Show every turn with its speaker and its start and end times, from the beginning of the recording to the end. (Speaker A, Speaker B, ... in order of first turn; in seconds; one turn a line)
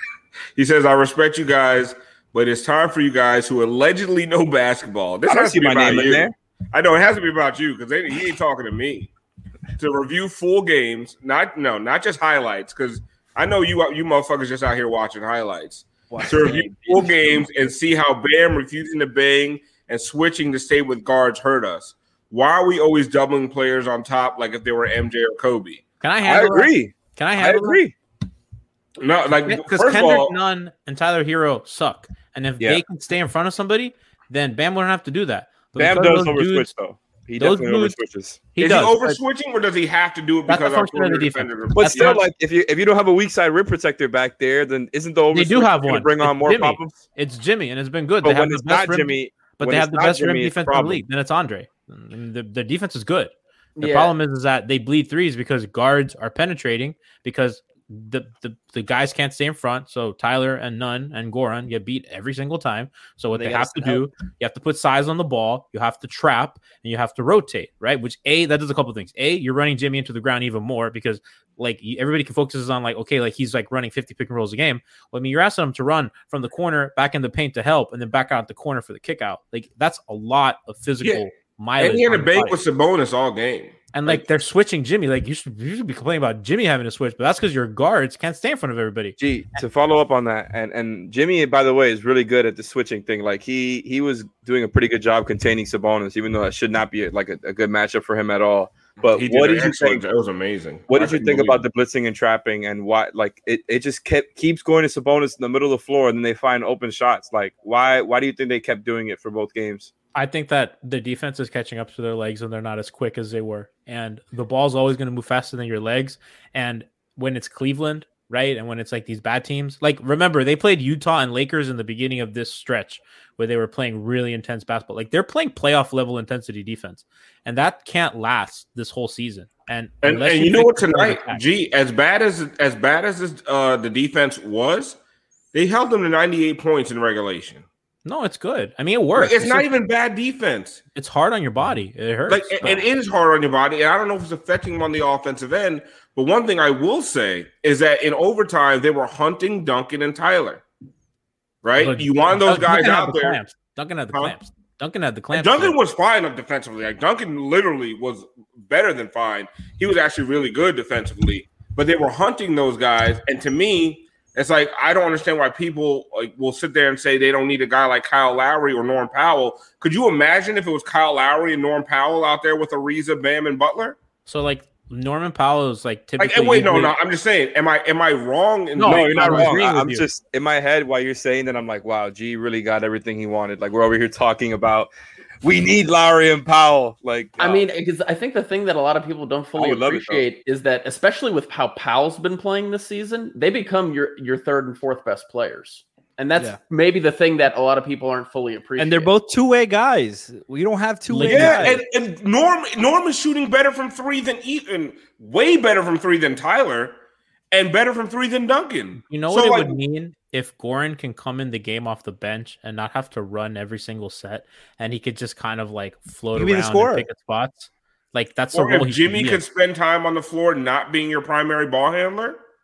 Speaker A: 0.6-9.1
Speaker B: 5.2-6.3
Speaker A: 9.8-25.8
Speaker C: 16.1-17.4
Speaker D: 26.0-27.8
Speaker B: 26.2-27.9
Speaker A: 29.0-30.3
Speaker D: 29.3-36.7
Speaker B: 35.8-38.5
Speaker D: 37.4-38.0
Speaker D: 38.5-39.2
Speaker A: 38.6-42.2
Speaker D: 40.5-42.2
Speaker B: 41.7-47.0
Speaker D: 45.3-82.6
Speaker B: 48.2-51.0
Speaker E: 53.8-54.1
Speaker C: 63.3-64.1
Speaker A: 81.8-84.2
Speaker D: 83.9-89.6
Speaker B: 89.2-100.0
Speaker A: 99.0-101.7
Speaker B: 100.9-109.9
Speaker D: 110.1-131.4
Speaker A: 130.0-135.0
Speaker A: 135.5-137.6
Speaker D: 138.0-139.7
Speaker A: 139.1-140.8
Speaker D: 140.9-142.8
Speaker A: 142.3-150.6
Speaker A: 151.6-153.4
Speaker D: 151.8-155.8
Speaker A: 155.3-174.0
Speaker D: 174.2-176.9
Speaker A: 176.2-179.6
Speaker D: 178.8-180.1
Speaker B: 178.8-184.9
Speaker B: 185.4-187.6
Speaker E: 187.4-199.1
Speaker B: 189.6-190.2
Speaker C: 198.8-201.8
Speaker D: 201.1-201.8
Speaker A: 201.2-207.0
Speaker A: 207.5-209.8
Speaker D: 209.0-219.4
Speaker C: 216.3-217.1
Speaker A: 218.5-222.4